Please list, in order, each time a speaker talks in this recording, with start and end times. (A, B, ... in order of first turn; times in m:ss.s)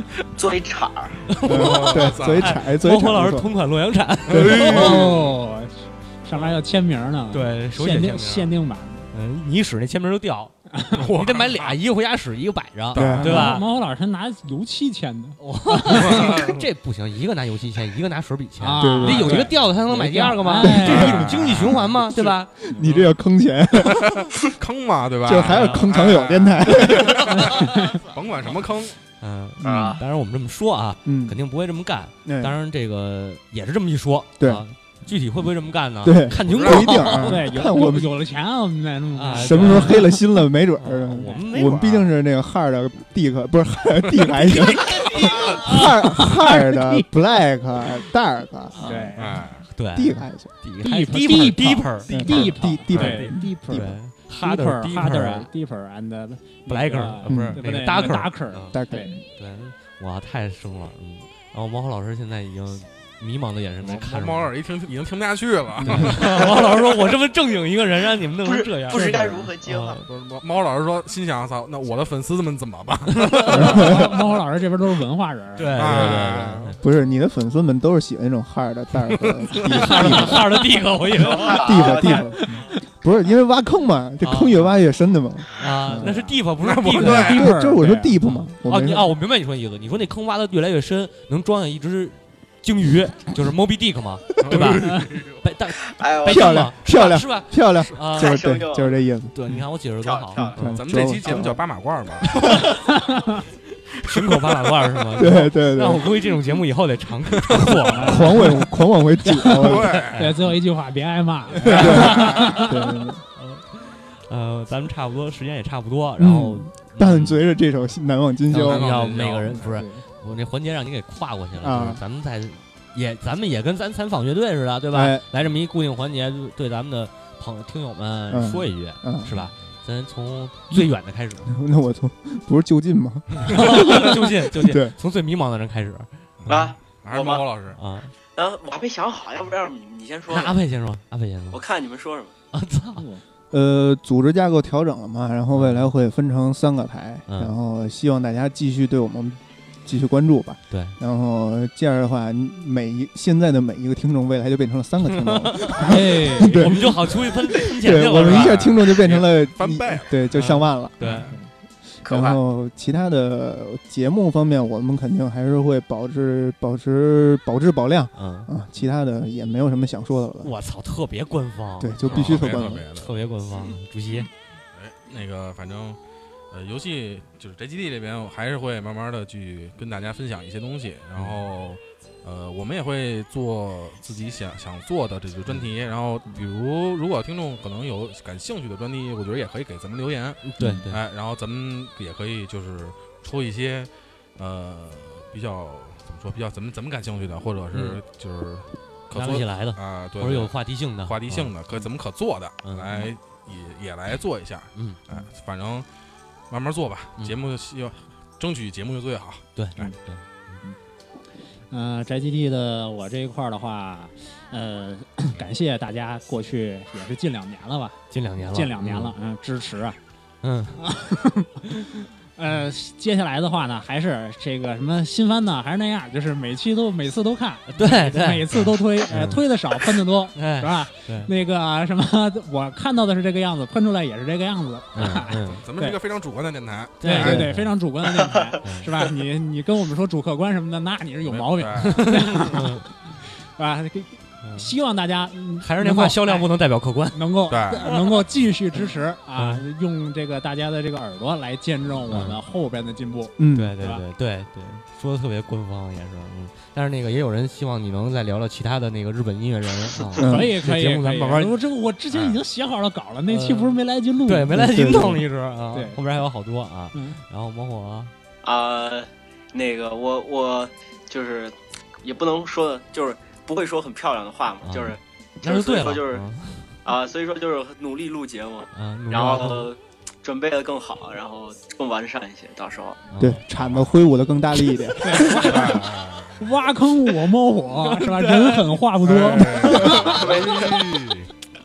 0:00.2-0:01.2 A
0:01.3-0:05.1 B
0:01.4-0:02.6 C
0:01.4-0:03.5 D
0:04.3-0:04.9 D
0:04.3-0:05.4 C
0:04.5-0:09.1 E
0:07.3-0:08.5 B
0:09.1-0:13.6 B
0:10.7-0:11.0 E
0:10.9-0:11.8 C
0:12.9-0:13.6 D
0:12.9-0:13.5 C
0:13.2-0:16.4 E
0:15.4-0:22.5 B
0:15.9-0:16.6 C
0:18.6-0:21.4 E
0:18.8-0:19.5 D
0:20.6-0:24.3 D
0:20.8-0:21.9 C
0:22.8-0:23.1 C
0:23.8-0:29.0 C
0:25.2-0:27.4 D
0:25.4-0:25.9 B
0:26.8-0:27.6 B
0:27.5-0:28.0 E
0:29.2-0:37.4 B
0:29.6-0:30.0 A
0:31.0-0:31.4 D
0:32.2-0:32.6 D
0:36.0-0:38.1 D
0:36.4-0:37.0 C
0:37.1-0:40.2 E
0:39.1-0:40.2 B
0:39.3-0:48.9 D
0:40.8-0:42.1 B
0:44.3-0:45.8 B
0:46.2-0:47.1 E
0:48.8-0:49.1 B
0:48.8-0:49.5 E
0:49.2-0:49.6 C
0:49.7-0:55.5 B
0:49.9-0:50.5 D
0:50.8-0:59.2 E
0:52.1-0:53.9 D
0:52.9-0:53.2 C
0:56.7-0:58.8 B
0:57.3-0:57.6 D
0:58.7-0:59.2 D
0:59.3-1:04.5 B
1:03.8-1:06.6 C
1:05.8-1:06.3 D
1:05.8-1:10.1 B
1:08.4-1:10.0 A
1:08.9-1:09.3 E
1:10.1-1:14.1 C
1:13.1-1:14.0 B
1:13.5-1:16.0 E
1:13.6-1:14.1 D
1:15.6-1:16.8 B
1:15.7-1:16.8 C
1:16.8-1:20.4 D
1:19.5-1:20.1 C
1:19.5-1:22.1 B
1:21.2-1:22.2 A
1:21.5-1:22.4 D
1:22.1-1:22.7 E
1:23.0-1:26.3 D
1:24.2-1:24.7 B
1:25.5-1:27.4 B
1:26.6-1:27.5 C
1:26.9-1:28.2 E
1:27.0-1:29.1 D
1:28.2-1:38.4 B
1:34.4-1:35.4 C
1:35.9-1:36.6 A
1:36.3-1:39.4 D
1:38.1-1:39.0 A
1:39.3-1:40.8 B
1:40.0-1:40.8 A
1:40.3-1:41.6 D
1:40.7-1:42.6 C
1:42.8-1:43.4 E
1:44.0-1:48.6 B
1:45.2-1:46.0 D
1:47.4-1:47.8 C
1:47.7-1:48.5 E
1:48.0-1:50.0 D
1:49.2-1:50.3 B
1:49.4-1:50.3 C
1:50.1-1:52.8 E
1:51.5-1:52.6 C
1:51.6-1:57.4 B
1:51.6-1:53.2 D
1:56.2-1:58.9 D
1:58.5-2:11.5 B
1:58.6-1:59.6 C
1:59.6-2:00.0 E
2:01.6-2:02.0 D
2:04.9-2:05.3 D
2:08.3-2:09.3 D
2:11.5-2:14.9 D
2:13.4-2:16.6 B
2:16.4-2:17.8 C
2:16.5-2:17.4 A
2:17.7-2:18.1 B
2:18.3-2:20.6 A
2:20.3-2:21.6 B
2:21.5-2:22.3 A
2:22.5-2:23.1 B
2:23.0-2:23.2 E
2:23.5-2:41.0 D
2:25.5-2:25.9 B
2:27.3-2:27.5 B
2:30.7-2:31.0 B
2:35.0-2:38.6 B
2:35.8-2:36.8 E
2:38.0-2:40.2 C
2:40.4-2:41.3 B
2:41.1-2:41.5 E
2:42.0-2:50.5 D
2:42.0-2:42.4 A
2:48.1-2:48.5 B
2:50.4-2:54.3 B
2:51.8-2:52.8 D
2:52.1-2:53.1 C
2:54.7-2:56.0 C
2:56.5-3:25.9 C
3:01.1-3:01.4 B
3:10.4-3:11.0 B
3:17.7-3:18.0 B
3:19.1-3:21.5 B
3:22.6-3:23.0 B
3:26.5-3:29.9 C
3:29.6-3:30.6 B
3:31.7-3:40.0 E
3:38.1-3:39.1 B
3:40.4-3:40.8 B
3:40.8-3:56.0 E
3:47.7-3:49.4 B
3:50.3-3:51.3 B
3:54.9-3:55.6 B
3:55.6-3:57.3 C
3:57.0-3:57.7 B
3:57.0-4:06.5 E
3:57.2-3:57.4 D
3:58.6-3:58.9 B
4:01.2-4:02.0 C
4:01.8-4:02.8 B
4:04.4-4:04.7 B
4:05.6-4:07.8 B
4:07.1-4:14.0 E
4:07.5-4:07.9 C
4:09.3-4:09.6 B
4:12.1-4:12.4 B
4:13.4-4:13.7 D
4:13.6-4:21.6 B
4:20.2-4:24.6 E
4:20.2-4:20.6 D
4:22.1-4:22.4 C
4:23.3-4:28.1 B
4:24.5-4:25.2 D
4:25.7-4:26.0 E
4:26.9-4:27.2 E
4:28.4-4:36.2 A
4:34.6-4:36.7 B
4:36.8-4:43.0 A
4:38.7-4:39.7 B
4:43.1-4:43.4 B
4:43.2-4:45.5 D
4:43.5-4:44.0 C
4:45.0-4:50.2 E
4:45.2-4:46.6 C
4:47.8-4:48.8 B
4:49.0-4:51.3 C
4:49.3-4:50.2 B
4:50.0-4:50.9 A